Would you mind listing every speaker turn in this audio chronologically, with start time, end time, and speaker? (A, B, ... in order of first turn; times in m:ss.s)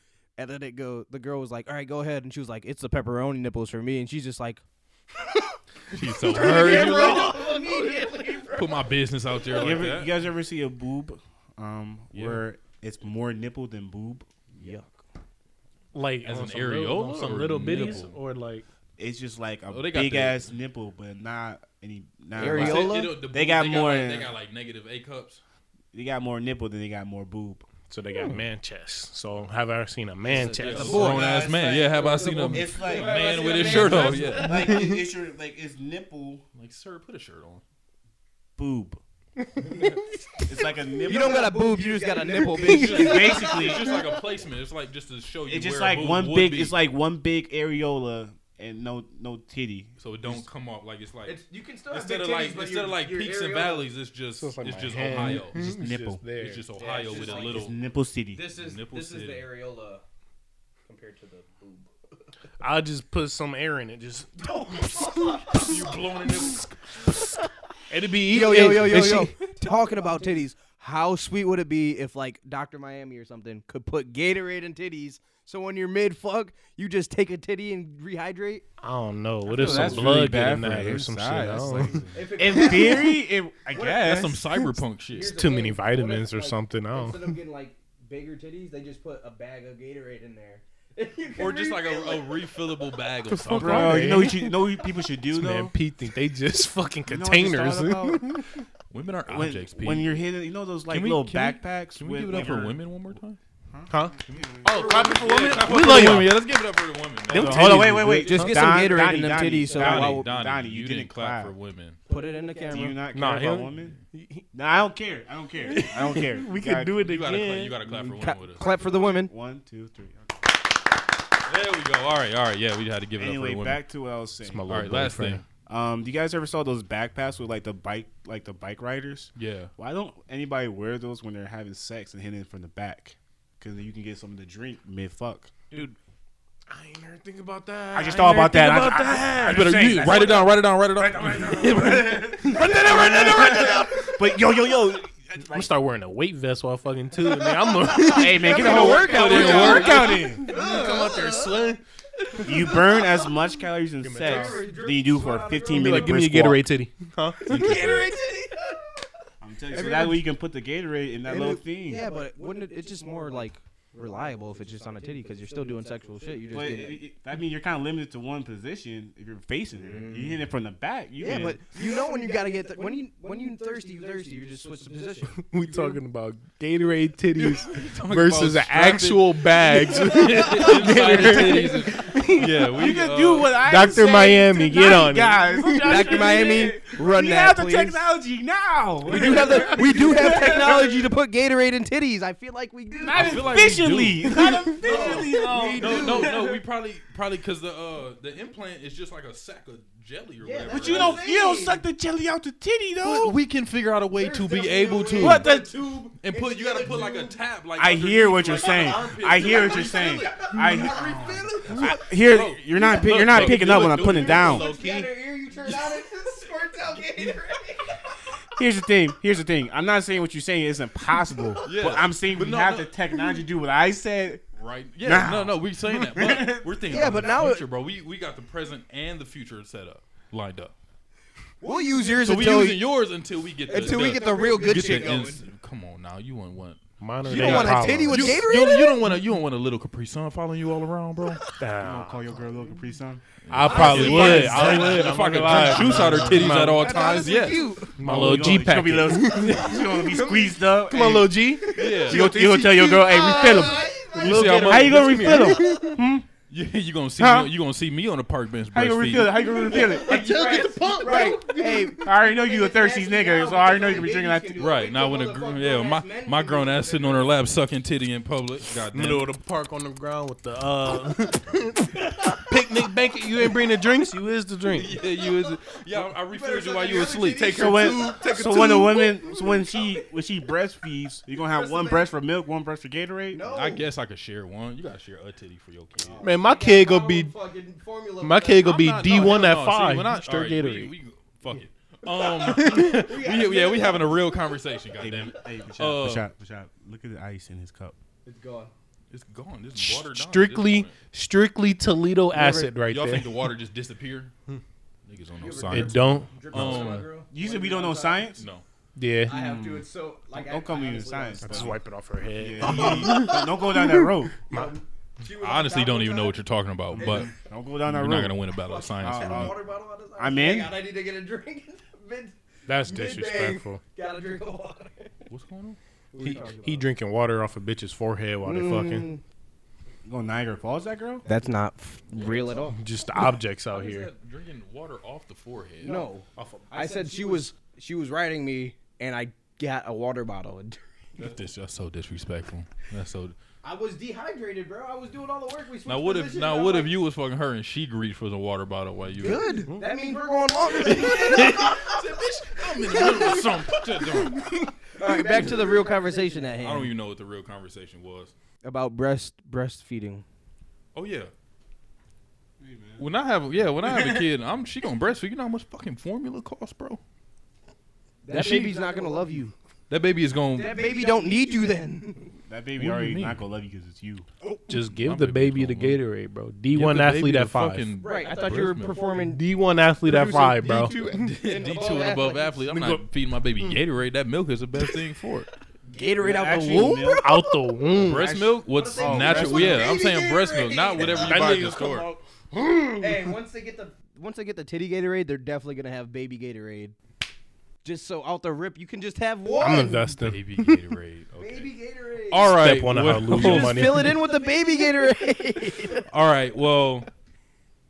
0:00.4-0:04.6 A
0:05.9-0:07.6 B
0:06.2-0:09.8 C
0:06.4-0:07.1 D
0:08.5-0:10.2 B
0:09.5-0:14.3 E
0:12.1-0:12.4 B
0:14.6-0:14.9 A
0:15.9-0:18.6 D
0:16.2-0:18.2 B
0:19.0-0:24.3 E
0:19.7-0:20.5 B
0:22.4-0:23.1 A
0:22.4-0:25.4 B
0:22.5-0:22.9 C
0:25.9-0:27.7 E
0:27.9-0:31.1 D
0:30.3-0:34.5 C
0:30.6-0:34.8 B
0:30.8-0:31.3 A
0:30.9-0:36.4 E
0:34.3-0:35.1 D
0:36.6-0:37.6 B
0:38.6-0:39.0 E
0:39.6-0:40.1 C
0:39.6-0:40.0 D
0:40.5-0:41.5 E
0:41.0-0:44.2 C
0:41.0-0:43.1 A
0:42.5-0:42.8 D
0:42.6-0:46.8 B
0:42.9-0:43.9 E
0:45.5-0:50.5 E
0:50.0-0:55.6 B
0:51.3-0:53.9 C
0:54.3-0:56.7 D
0:55.4-0:56.2 E
0:56.3-0:57.8 B
0:56.7-0:57.7 C
0:57.1-0:58.4 E
0:58.3-1:00.0 C
0:58.4-0:59.5 B
1:00.9-1:01.9 C
1:02.6-1:05.4 D
1:04.4-1:06.2 C
1:05.5-1:07.3 B
1:07.9-1:09.4 D
1:08.3-1:18.6 A
1:09.4-1:10.5 C
1:18.8-1:22.1 D
1:19.4-1:24.6 E
1:22.1-1:23.2 C
1:23.8-1:25.4 B
1:25.1-1:32.6 C
1:25.3-1:27.4 D
1:31.3-1:34.2 B
1:33.3-1:38.6 D
1:33.6-1:35.8 E
1:37.1-1:38.4 E
1:38.9-1:40.2 B
1:39.3-1:42.8 E
1:40.9-1:43.4 B
1:43.7-1:46.2 E
1:43.9-1:44.2 D
1:44.6-1:48.0 B
1:44.7-1:45.6 C
1:44.8-1:46.4 D
1:47.3-1:49.0 D
1:47.3-1:51.5 E
1:48.1-1:50.3 A
1:48.1-1:48.5 C
1:49.5-1:49.8 C
1:49.8-1:52.0 B
1:52.1-1:53.0 C
1:52.1-1:53.0 A
1:52.7-1:54.0 E
1:53.1-1:54.4 D
1:54.5-1:57.1 E
1:55.6-1:57.8 D
1:57.0-1:58.6 B
1:57.8-1:59.3 A
1:58.5-1:59.2 C
1:59.1-2:00.4 E
2:01.5-2:03.8 B
2:03.2-2:04.7 E
2:04.4-2:05.4 D
2:04.7-2:05.4 B
2:05.7-2:15.6 E
2:09.4-2:09.7 B
2:16.7-2:20.3 D
2:17.9-2:25.7 E
2:19.4-2:23.8 B
2:22.4-2:24.2 D
2:25.4-2:31.8 D
2:28.1-2:30.5 E
2:28.3-2:31.3 A
2:28.5-2:31.6 C
2:28.6-2:30.2 B
2:32.4-2:36.6 E
2:32.5-2:32.9 D
2:34.0-2:34.7 D
2:34.2-2:36.2 C
2:35.6-2:38.0 D
2:37.4-2:38.9 C
2:37.5-2:38.1 B
2:39.4-2:42.0 E
2:39.7-2:40.2 C
2:39.7-2:40.2 A
2:41.3-2:47.0 A
2:41.4-2:46.9 C
2:46.5-2:51.6 E
2:49.9-2:50.4 A
2:51.2-2:55.3 A
2:51.3-2:56.0 C
2:55.3-3:02.6 D
2:57.3-3:03.6 B
3:00.2-3:02.1 C
3:02.7-3:11.0 E
3:03.6-3:06.4 D
3:05.8-3:08.0 A
3:06.0-3:06.6 C
3:09.1-3:09.9 D
3:09.1-3:13.4 A
3:09.1-3:11.0 C
3:13.0-3:13.4 C
3:13.1-3:16.5 E
3:13.1-3:21.2 B
3:14.8-3:16.5 C
3:20.4-3:21.8 C
3:20.7-3:23.4 E
3:23.0-3:25.5 B
3:24.2-3:27.4 C
3:25.2-3:25.7 E
3:26.2-3:34.7 B
3:27.8-3:34.7 E
3:28.5-3:32.0 C
3:32.8-3:38.2 C
3:33.2-3:35.1 D
3:38.6-3:44.5 E
3:41.6-3:42.9 B
3:44.6-3:50.7 B
3:45.0-3:47.0 E
3:46.9-3:47.6 C
3:46.9-3:47.6 A
3:51.6-3:52.7 C
3:51.6-3:52.8 A
3:52.2-4:01.4 B
3:53.7-3:55.4 C
3:53.7-3:55.4 A
3:57.0-3:58.4 D
3:57.3-3:59.0 A
4:01.3-4:02.4 D
4:01.6-4:03.2 E
4:03.5-4:09.0 B
4:03.5-4:07.2 D
4:03.7-4:05.2 C
4:03.8-4:04.7 E
4:06.6-4:08.0 A
4:07.0-4:07.8 C
4:08.0-4:16.0 D
4:08.0-4:16.3 E
4:11.8-4:12.4 B
4:13.1-4:14.4 C
4:14.2-4:15.6 B
4:16.5-4:19.5 B
4:17.2-4:17.5 E
4:18.7-4:20.5 E
4:19.6-4:22.0 D
4:19.6-4:27.4 C
4:21.0-4:22.0 A
4:22.0-4:24.6 E
4:24.6-4:29.3 B
4:28.9-4:35.0 D
4:34.7-4:38.2 B
4:35.5-4:38.6 C
4:37.5-4:43.4 E
4:38.1-4:39.6 D
4:41.3-4:42.2 C
4:43.3-4:43.9 C
4:43.4-4:46.3 B
4:46.0-4:49.3 C
4:46.2-4:47.4 D
4:48.2-4:50.9 D
4:48.6-4:56.3 B
4:52.4-4:53.2 D
4:52.4-4:55.4 C
4:55.0-4:58.0 E
4:58.2-4:58.7 C
4:59.1-5:01.0 B
4:59.8-5:03.5 D
5:02.3-5:02.7 A
5:02.6-5:04.3 B
5:05.0-5:07.1 B
5:05.4-5:08.4 C
5:05.7-5:07.0 D
5:07.3-5:08.4 E
5:08.4-5:08.6 B
5:09.0-5:09.4 D
5:09.3-5:11.7 C
5:09.3-5:11.8 E
5:11.4-5:14.7 D
5:12.4-5:14.4 E
5:14.5-5:16.4 C
5:15.4-5:17.3 B
5:16.9-5:19.6 E
5:17.0-5:17.4 C
5:17.8-5:19.6 B
5:18.6-5:25.1 C
5:20.2-5:20.8 E
5:22.7-5:23.8 D
5:25.3-5:25.8 B
5:26.1-5:26.9 C
5:26.2-5:29.1 D
5:28.4-5:29.2 A
5:30.0-5:31.3 E
5:31.3-5:32.8 A
5:32.2-5:32.6 C
5:32.7-5:34.1 D
5:33.7-5:36.0 B
5:35.8-5:37.6 C
5:35.9-5:36.1 A
5:36.4-5:36.9 D
5:36.7-5:40.8 A
5:41.2-5:43.4 B
5:43.6-5:47.0 C
5:45.8-5:49.5 B
5:49.2-5:51.5 A
5:49.8-5:54.0 C
5:50.7-5:54.5 B
5:54.9-5:56.8 C
5:55.0-5:56.9 A
5:56.6-5:58.3 B
5:58.6-6:00.2 A
6:00.9-6:01.3 B
6:02.6-6:03.1 E
6:03.0-6:07.0 B
6:08.2-6:09.5 C
6:08.3-6:09.5 A
6:08.3-6:08.7 B
6:09.9-6:10.8 B
6:10.5-6:12.0 C
6:10.6-6:12.3 A
6:12.5-6:14.3 E
6:12.8-6:13.4 B
6:14.7-6:17.9 D
6:14.8-6:16.0 B
6:16.7-6:19.0 B
6:18.0-6:19.2 C
6:18.0-6:19.4 A
6:19.2-6:21.4 D
6:20.1-6:22.7 C
6:20.3-6:20.8 A
6:20.6-6:25.5 B
6:22.7-6:23.0 D
6:25.9-6:31.4 C
6:25.9-6:27.2 A
6:26.2-6:27.3 E
6:26.6-6:28.3 D
6:28.0-6:32.1 B
6:28.3-6:30.0 E
6:31.0-6:33.4 D
6:33.0-6:34.0 C
6:33.0-6:33.4 A
6:34.0-6:37.0 A
6:37.8-6:40.0 A
6:39.4-6:40.1 C
6:39.6-6:40.7 D
6:40.0-6:41.8 B
6:41.4-6:42.5 C
6:42.3-6:44.1 B
6:42.5-6:44.2 D
6:43.3-6:46.0 A
6:44.0-6:46.0 C
6:46.0-6:47.1 B